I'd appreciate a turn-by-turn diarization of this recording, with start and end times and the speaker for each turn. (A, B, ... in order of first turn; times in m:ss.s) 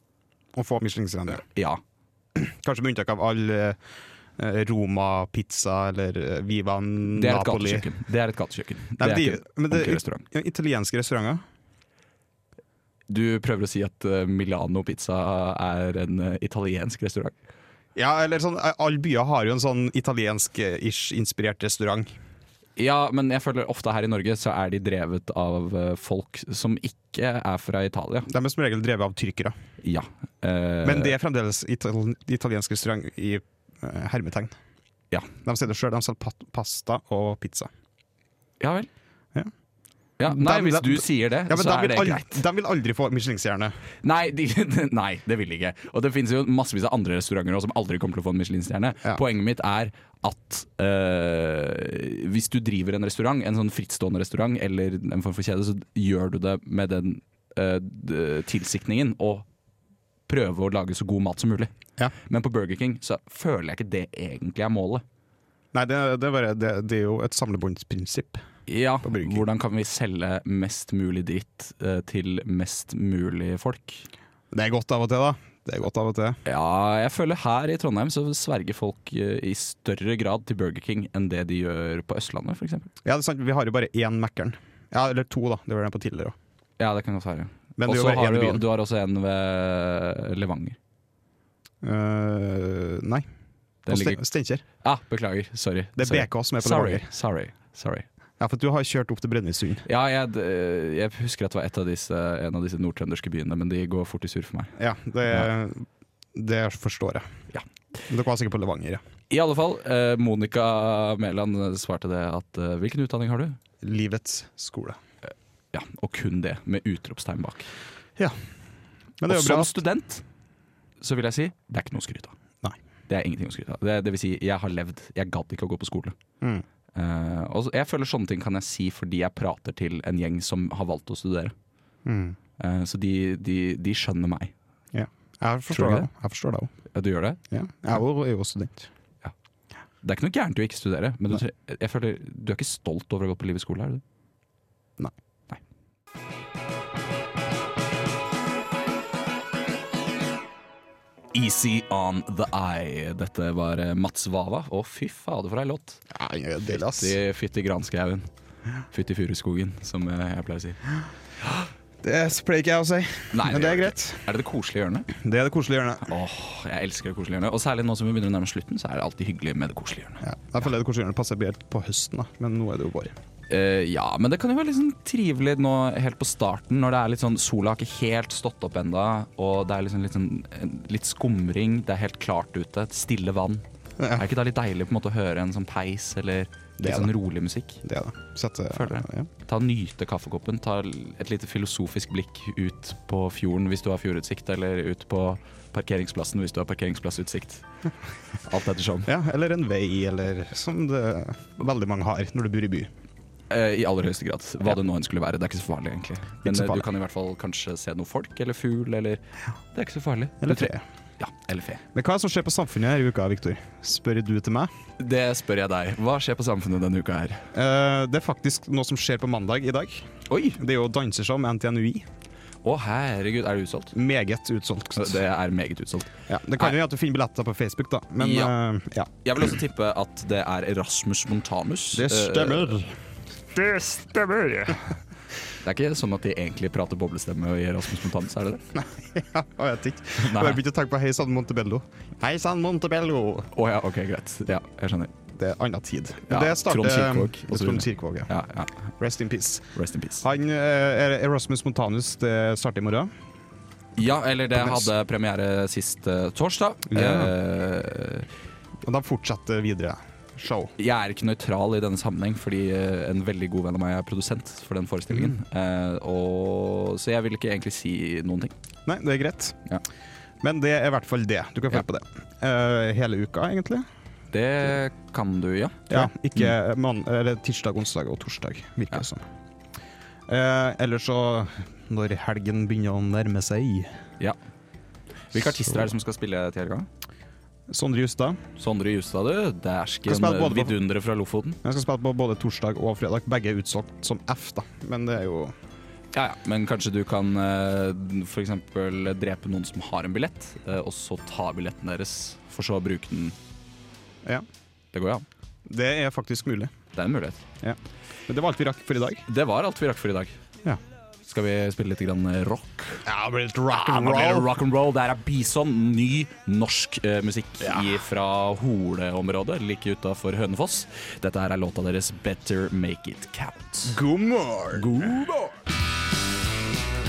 0:00.6-0:01.4 A
0:01.4-0:01.8 B
0:02.3-0:03.8 A
0:04.4-0:07.9 A
0:07.1-0:10.2 B
0:09.0-0:11.4 A
0:13.1-0:17.3 B
0:18.0-0:22.1 A
0:22.8-0:28.3 B
0:28.3-0:29.6 A
0:29.8-0:31.2 B
0:30.8-0:34.5 A
0:35.4-0:37.7 A
0:38.6-0:38.9 B
0:40.2-0:42.4 B
0:40.3-0:43.8 A
0:44.0-0:59.5 B
1:00.3-1:05.0 B
1:05.7-1:08.4 A
1:08.7-1:14.1 B
1:09.0-1:09.4 A
1:14.5-1:16.4 A
1:16.4-1:22.9 B
1:23.0-1:26.4 A
1:26.8-1:30.8 B
1:27.8-1:28.6 A
1:31.8-1:33.2 A
1:33.8-1:34.2 B
1:33.9-1:34.6 A
1:34.8-1:38.0 B
1:36.0-1:37.1 A
1:38.4-1:39.8 A
1:39.8-1:44.7 B
1:44.8-1:47.2 A
1:48.1-1:49.0 A
1:49.3-1:53.6 B
1:53.8-1:55.0 A
1:55.7-1:57.7 B
1:59.2-1:59.7 A
1:59.2-2:00.2 B
2:01.0-2:02.3 B
2:03.1-2:06.2 B
2:06.9-2:11.5 B
2:12.0-2:12.4 A
2:12.6-2:14.5 B
2:14.9-2:16.7 A
2:15.7-2:16.1 B
2:16.9-2:17.4 B
2:17.5-2:18.9 A
2:20.0-2:24.0 B
2:31.3-2:36.0 B
2:36.1-2:37.2 A
2:36.7-2:38.3 B
2:38.9-2:40.8 B
2:42.0-2:44.2 A
2:43.3-2:45.1 B
2:45.1-2:46.1 A
2:46.0-2:50.2 B
2:50.2-2:53.2 A
2:53.5-3:07.8 B
3:06.8-3:07.1 A
3:07.8-3:09.3 A
3:08.7-3:17.6 B
3:18.4-3:19.1 B
3:19.0-3:22.9 A
3:23.5-3:31.8 B
3:26.4-3:26.8 A
3:30.4-3:30.8 A
3:31.9-3:34.7 A
3:35.0-3:37.5 B
3:37.5-3:42.1 A
3:40.3-3:40.6 B
3:42.6-3:43.9 B
3:43.9-3:45.2 A
3:45.0-3:46.7 B
3:46.3-3:49.1 A
3:48.2-3:48.5 B
3:49.2-3:52.8 B
3:51.9-3:53.0 A
3:53.5-3:54.8 A
3:55.6-3:58.6 B
3:58.7-4:03.5 A
4:00.2-4:00.6 B
4:03.5-4:05.1 B
4:05.3-4:08.3 A
4:06.3-4:08.9 B
4:09.0-4:13.1 A
4:09.8-4:10.2 B
4:14.0-4:18.3 B
4:14.5-4:14.9 A
4:16.9-4:17.3 A
4:18.8-4:20.7 A
4:20.8-4:28.5 B
4:28.8-4:29.6 A
4:30.4-4:33.9 A
4:34.3-4:36.5 B
4:35.9-4:39.2 A
4:40.3-4:44.0 A
4:45.3-4:46.9 B
4:47.7-4:48.4 A
4:48.6-4:51.6 B
4:50.1-4:50.8 A
4:51.6-4:55.5 A
4:56.1-5:03.4 B
5:04.9-5:05.2 B
5:05.7-5:06.7 A
5:06.9-5:07.4 B
5:07.6-5:09.2 A
5:09.3-5:10.4 B
5:11.2-5:13.0 B
5:13.0-5:14.5 A
5:13.7-5:24.0 B
5:23.9-5:25.2 A
5:24.7-5:25.5 B